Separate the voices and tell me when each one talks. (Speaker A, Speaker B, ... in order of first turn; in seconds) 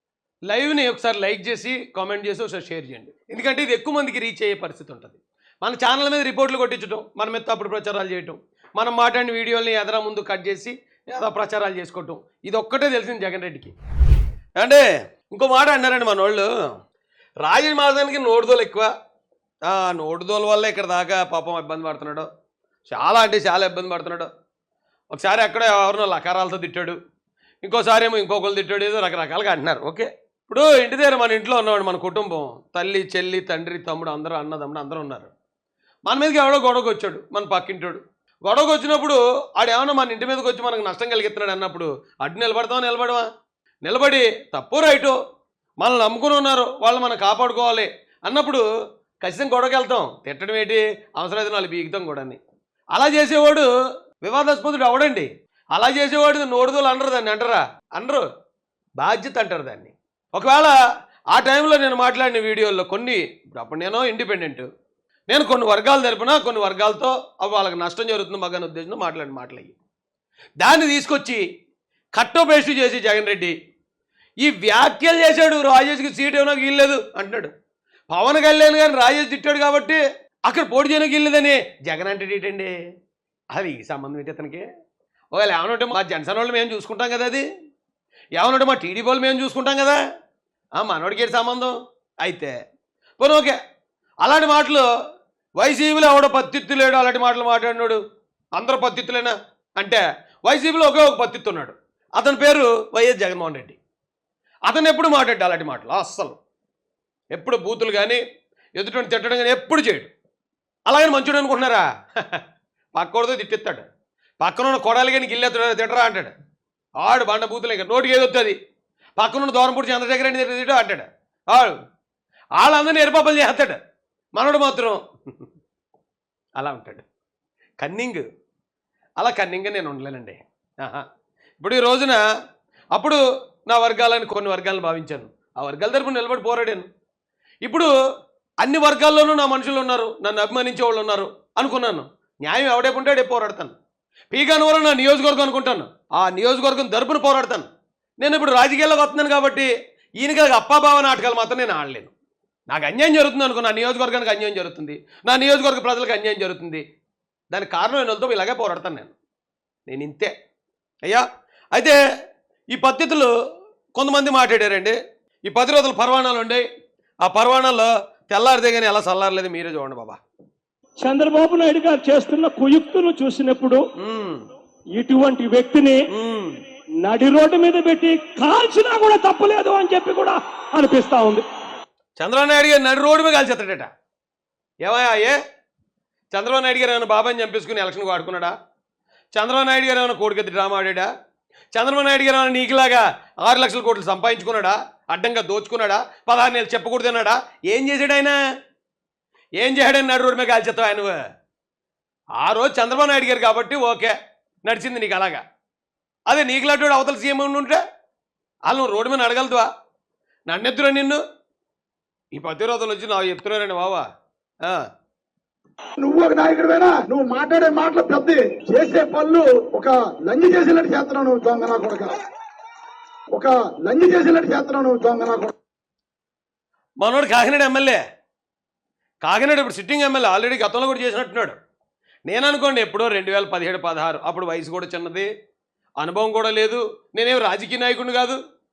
Speaker A: 0.5-13.7, 14.6-16.5, 17.4-18.9, 19.7-22.3, 22.9-24.3, 25.1-27.0, 27.6-35.3, 36.1-43.3, 43.8-45.2, 45.8-48.6, 49.2-52.4, 52.9-53.7, 54.2-58.2, 59.0-60.8, 61.3-64.7, 65.3-69.8, 70.6-71.4, 72.1-73.5, 74.4-77.5, 78.1-82.7, 83.5-84.7, 85.3-87.5, 88.4-90.0, 90.8-92.5, 93.2-93.6, 94.2-94.8, 95.6-98.0, 98.6-103.8, 104.7-106.4, 107.3-108.2, 108.8-110.1, 110.9-112.4, 112.9-113.8, 114.4-116.3, 117.0-118.5, 119.2-121.7, 122.6-123.8, 124.4-125.0, 126.6-127.0, 127.8-128.2, 129.2-131.0, 131.6-132.2, 132.9-136.8, 137.6-137.9, 138.6-143.8, 144.3-147.7, 148.2-152.1, 152.7-156.8, 157.5-159.1, 159.9-160.3, 161.1-162.0, 162.7-163.3, 163.9-166.6, 167.2-170.2, 174.0-174.4, 176.1-176.6, 182.2-183.9, 184.8-185.4, 186.3-188.5, 189.3-191.1, 191.7-198.4, 199.6-201.2, 202.4-204.1, 204.7-205.4, 206.3-207.8, 208.7-209.7, 210.5-211.2, 212.3-214.1, 227.0-228.0, 229.2-231.6, 232.3-235.3, 236.0-238.4
Speaker B: 171.0-173.8, 174.9-176.0, 177.0-181.4
Speaker C: 216.0-222.1, 223.3-225.5